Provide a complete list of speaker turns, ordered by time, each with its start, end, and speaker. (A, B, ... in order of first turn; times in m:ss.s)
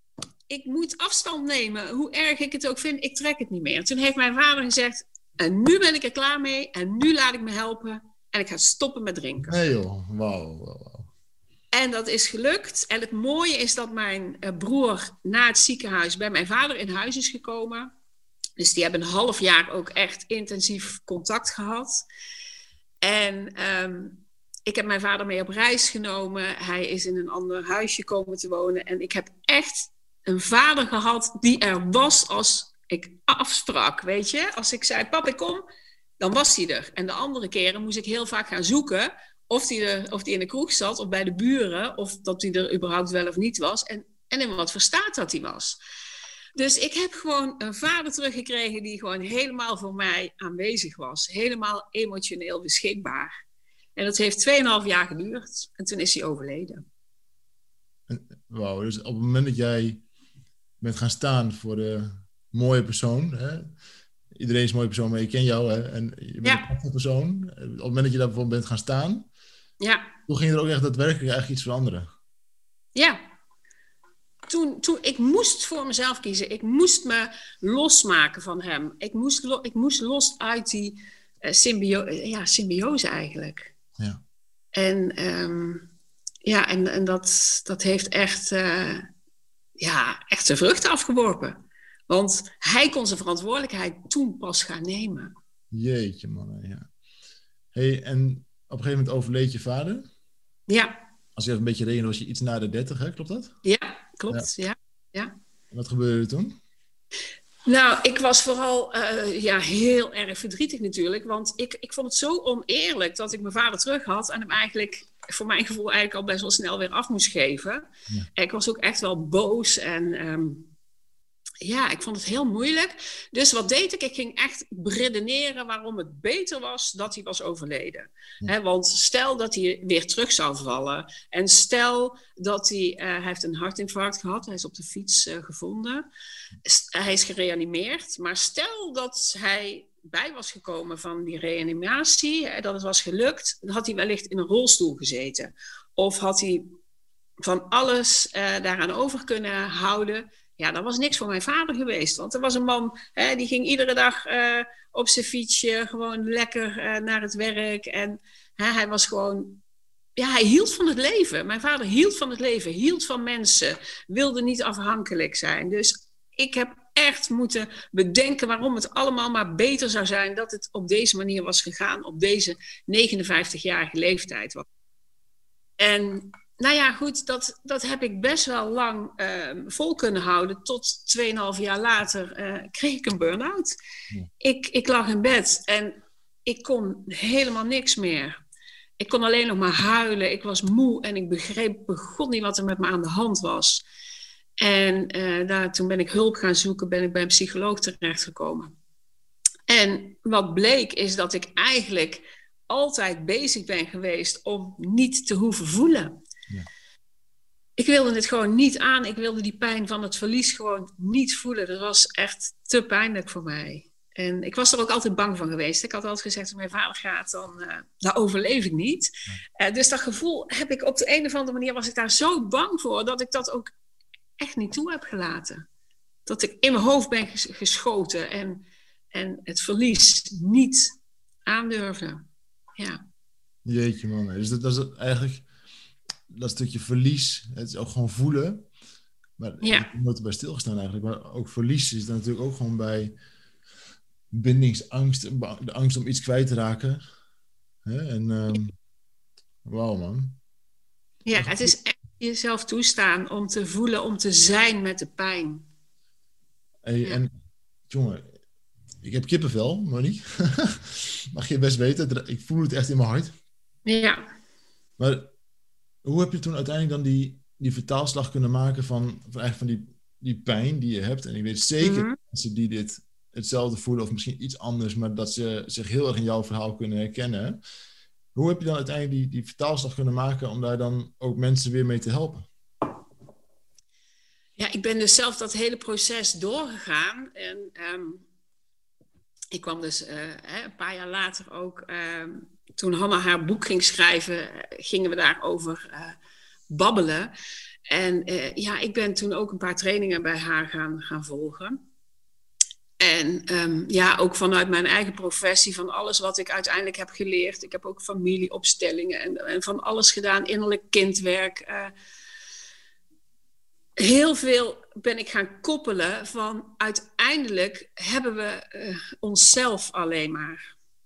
0:00.5-0:09.5 A
0:09.5-0:11.1 B
0:11.7-0:17.9 A
0:18.6-0:22.0 A
0:23.0-0:35.6 A
0:36.2-0:45.8 A
0:46.6-0:53.3 A
0:54.0-0:56.8 A
0:58.1-1:00.0 B
1:00.8-1:03.7 B
1:04.3-1:09.3 B
1:09.8-1:10.1 A
1:10.3-1:12.1 B
1:12.9-1:13.2 A
1:14.5-1:23.7 A
1:24.8-1:25.9 A
1:26.4-1:29.1 A
1:29.8-1:35.3 A
1:35.7-1:36.9 B
1:37.7-1:40.1 B
1:40.7-1:41.0 A
1:41.4-1:43.5 B
1:43.6-1:45.3 A
1:45.7-1:46.6 B
1:47.6-2:00.7 A
2:01.6-2:16.0 A
2:16.6-2:26.7 A
2:27.4-2:39.6 A
2:40.2-2:54.6 A
2:55.8-3:03.7 A
3:04.4-3:08.4 A
3:09.0-3:13.8 A
3:14.6-3:18.7 A
3:19.7-3:26.2 A
3:27.8-3:43.7 A
3:44.4-3:45.6 A
3:46.2-3:51.0 A
3:51.5-3:52.2 A
3:53.6-3:55.4 B
3:56.3-3:58.6 B
3:59.4-4:03.1 B
3:59.6-3:59.9 A
4:04.3-4:07.0 B
4:07.8-4:08.7 B
4:09.6-4:10.4 B
4:11.2-4:15.6 A
4:11.4-4:11.7 B
4:16.8-4:17.3 B
4:17.9-4:18.3 B
4:19.0-4:23.3 B
4:23.8-4:24.2 A
4:25.0-4:25.3 B
4:26.0-4:37.6 B
4:31.8-4:32.2 A
4:38.3-4:42.5 B
4:44.6-4:48.2 A
4:49.5-4:56.2 A
4:56.7-4:57.3 A
4:57.9-5:01.8 A
5:03.0-5:11.9 A
5:14.0-5:20.6 A